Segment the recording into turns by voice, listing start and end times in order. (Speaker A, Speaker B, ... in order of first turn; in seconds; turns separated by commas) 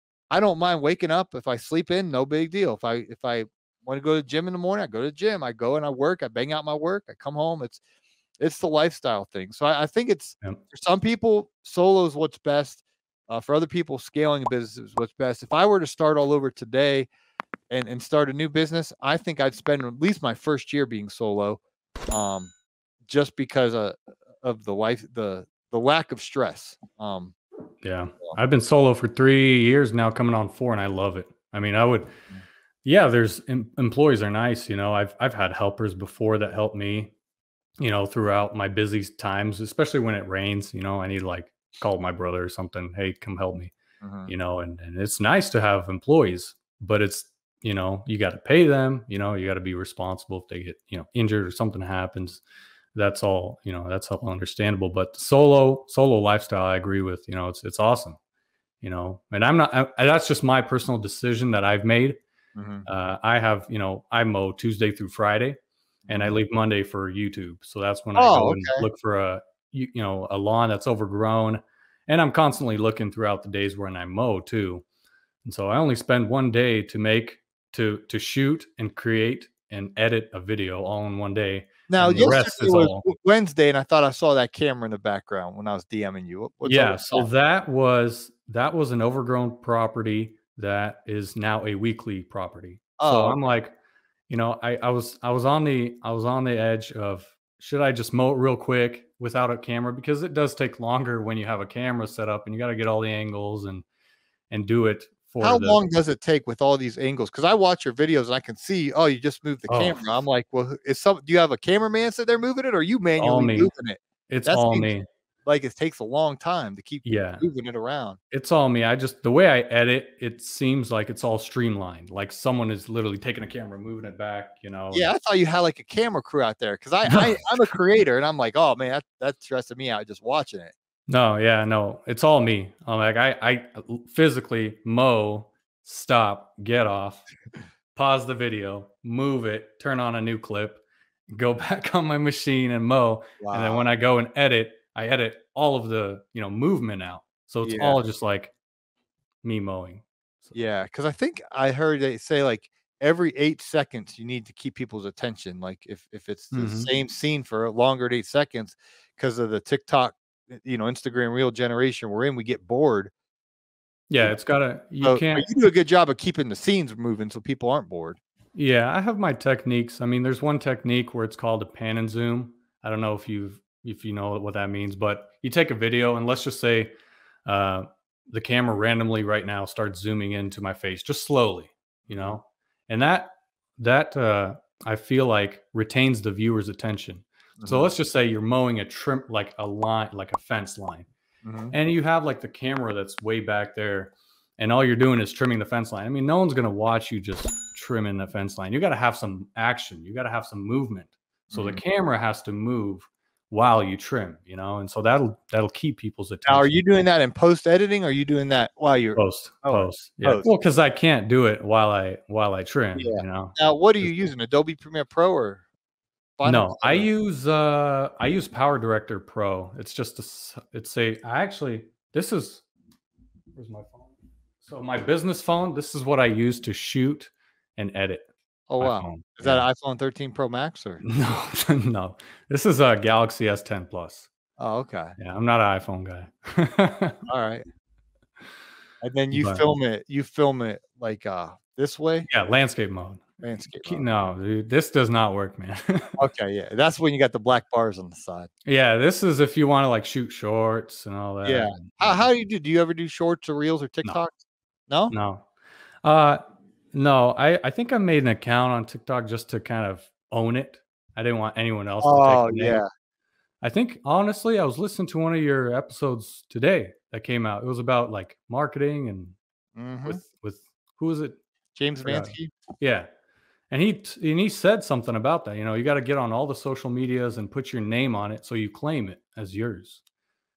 Speaker A: 0.3-7.8, Speaker A: 8.4-17.1, Speaker A: 17.7-22.5, Speaker A: 23.1-27.4, Speaker B: 27.8-32.1, Speaker B: 32.9-37.1, Speaker B: 37.8-43.7, Speaker A: 44.0-44.3, Speaker B: 44.3-52.4, Speaker B: 53.0-58.2, Speaker B: 58.8-62.2, Speaker A: 62.6-62.9, Speaker B: 62.9-65.6, Speaker A: 66.1-66.3, Speaker B: 66.1-74.8, Speaker A: 68.2-68.8, Speaker B: 75.5-83.0, Speaker A: 81.9-87.3, Speaker B: 86.7-93.8, Speaker A: 93.0-93.4, Speaker B: 94.3-103.8, Speaker B: 104.5-105.9, Speaker A: 105.4-118.2, Speaker B: 109.7-110.0, Speaker B: 113.2-113.7, Speaker B: 114.3-115.1, Speaker B: 117.0-117.4, Speaker B: 118.3-125.1, Speaker A: 124.9-130.7, Speaker B: 127.0-127.4, Speaker B: 131.1-137.2, Speaker B: 137.9-148.5, Speaker A: 143.4-143.8, Speaker A: 147.6-148.0, Speaker B: 149.4-150.6, Speaker A: 150.5-163.1, Speaker B: 156.5-156.9, Speaker B: 164.1-165.5, Speaker A: 165.0-168.2, Speaker B: 168.6-176.9, Speaker B: 177.5-191.1, Speaker A: 182.1-182.4, Speaker A: 187.6-187.9, Speaker A: 191.4-191.7, Speaker B: 191.7-206.8, Speaker A: 201.5-201.8, Speaker A: 206.5-210.5, Speaker B: 209.2-214.2, Speaker A: 213.0-215.6, Speaker A: 216.4-217.1, Speaker B: 216.4-222.7, Speaker B: 223.6-228.3, Speaker A: 228.7-231.0, Speaker B: 228.8-229.6, Speaker B: 231.0-234.3, Speaker A: 234.6-235.2, Speaker B: 235.2-237.2, Speaker A: 237.3-237.6, Speaker A: 239.0-242.3, Speaker B: 239.3-239.7, Speaker B: 242.3-243.3, Speaker A: 243.4-244.1, Speaker B: 243.8-246.2, Speaker A: 246.2-248.5, Speaker B: 248.7-252.3, Speaker A: 251.4-255.1, Speaker B: 255.1-255.5, Speaker B: 256.0-256.4, Speaker B: 256.9-262.8, Speaker A: 262.0-262.9, Speaker B: 263.6-269.4, Speaker A: 269.8-270.2, Speaker B: 270.1-271.4, Speaker A: 271.8-272.5, Speaker B: 272.0-273.1, Speaker B: 273.7-280.0